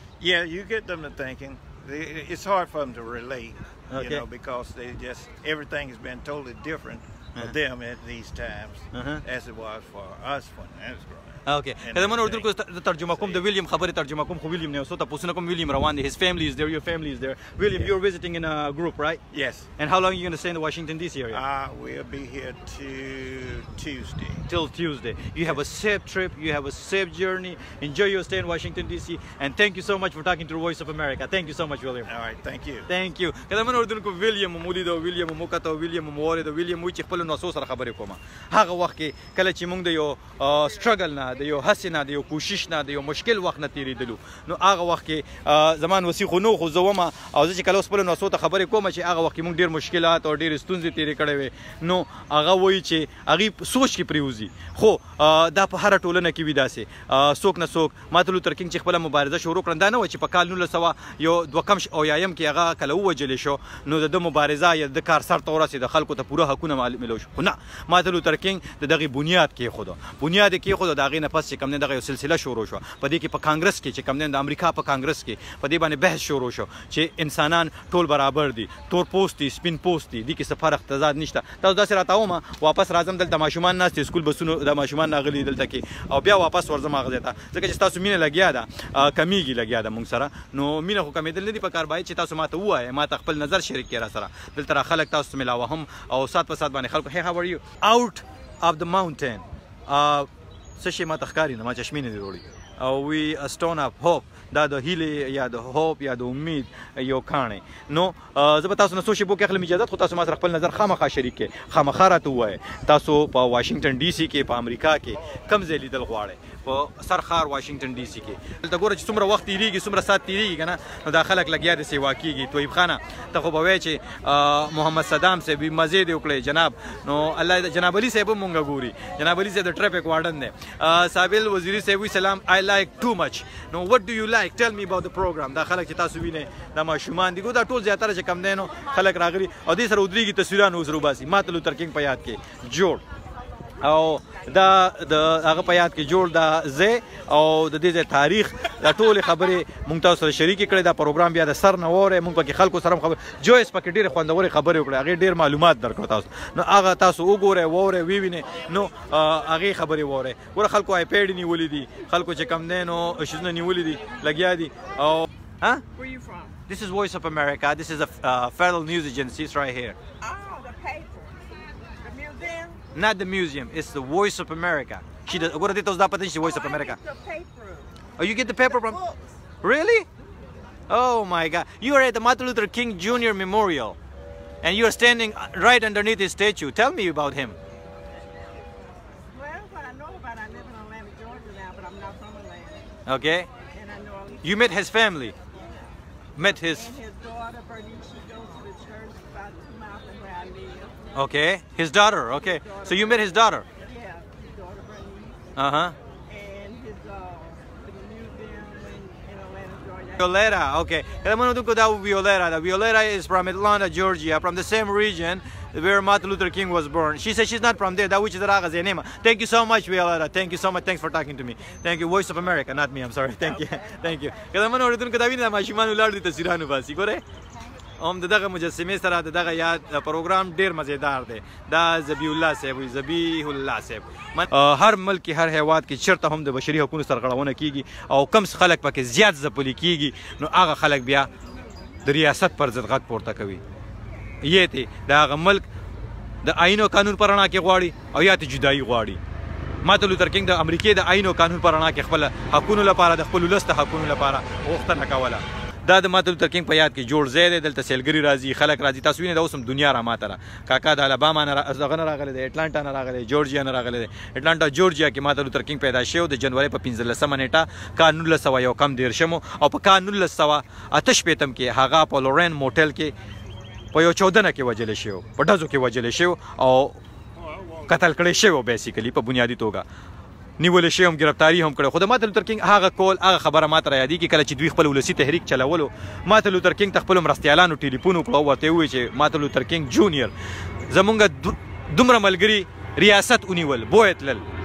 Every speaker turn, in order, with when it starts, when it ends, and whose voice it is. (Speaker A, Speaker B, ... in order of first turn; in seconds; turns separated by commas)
Speaker A: 0.2-12.4, Speaker B: 3.9-4.2, Speaker B: 8.9-9.2, Speaker B: 11.4-19.2, Speaker A: 13.1-13.4, Speaker A: 19.3-19.7, Speaker B: 19.8-21.4, Speaker A: 21.3-24.4, Speaker B: 24.4-32.1, Speaker A: 32.1-32.9, Speaker B: 32.9-143.0, Speaker B: 143.8-165.8, Speaker C: 165.9-166.6, Speaker B: 166.7-170.0, Speaker C: 170.2-171.5, Speaker C: 172.0-172.8, Speaker B: 172.9-177.0, Speaker C: 176.4-177.9, Speaker B: 178.2-179.0, Speaker C: 178.8-179.2, Speaker B: 179.6-180.1, Speaker B: 180.9-184.0, Speaker B: 184.6-187.6, Speaker C: 189.3-193.0, Speaker B: 193.1-193.5, Speaker C: 193.7-194.6, Speaker B: 194.4-195.3, Speaker B: 196.4-197.0, Speaker C: 196.4-201.1, Speaker B: 201.1-203.7, Speaker C: 202.3-205.5, Speaker B: 205.5-205.9, Speaker C: 206.3-210.3, Speaker B: 210.2-227.2, Speaker C: 223.8-224.1, Speaker B: 228.0-241.3, Speaker B: 242.0-243.6, Speaker B: 244.4-245.7, Speaker B: 246.4-249.2, Speaker B: 249.8-273.1, Speaker B: 273.9-277.0, Speaker B: 277.8-279.8, Speaker B: 280.6-290.3, Speaker B: 290.9-294.4